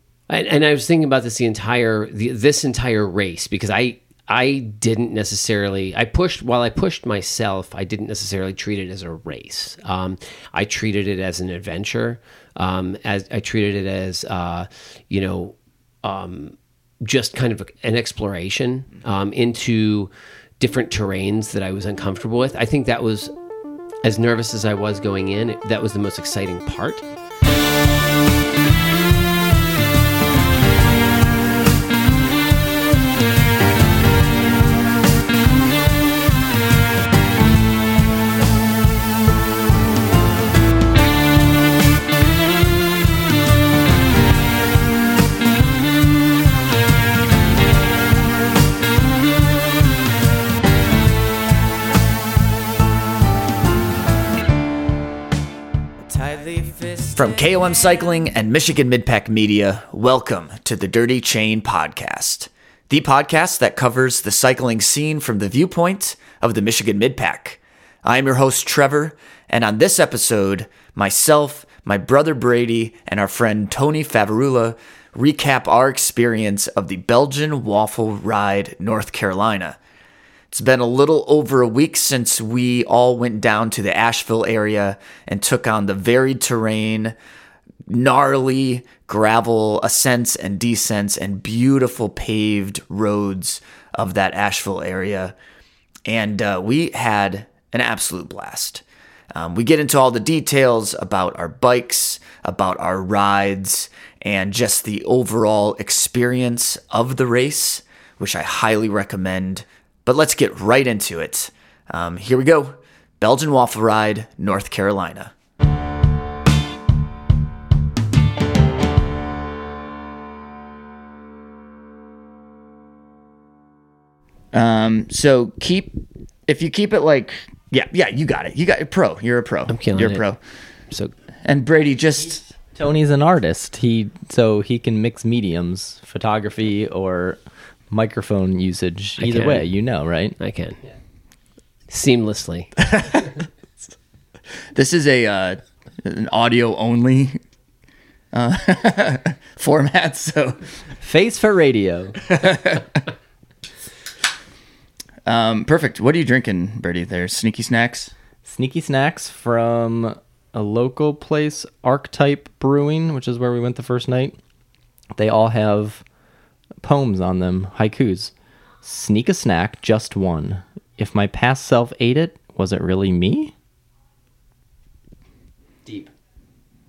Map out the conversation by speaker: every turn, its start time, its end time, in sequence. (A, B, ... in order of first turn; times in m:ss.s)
0:00.3-0:23.3 A
0:24.0-0:27.0 A
0:56.0-1:19.8 B
1:20.5-1:27.1 B
1:27.9-1:35.3 B
1:36.0-1:38.8 B
1:39.3-1:55.3 B
2:04.5-2:10.4 B
2:09.7-2:10.2 A
2:11.4-2:12.5 B
2:12.7-2:17.4 C
2:17.9-2:20.4 C
2:19.2-2:19.6 A
2:20.4-2:20.8 A
2:21.9-2:22.7 A
2:22.8-2:23.3 B
2:24.7-2:27.4 B
2:28.3-2:30.7 B
2:31.0-2:32.2 C
2:32.3-2:33.0 B
2:35.2-2:38.1 B
2:38.4-2:44.4 C
2:45.1-2:46.0 C
2:46.8-2:53.5 C
2:55.8-2:56.1 C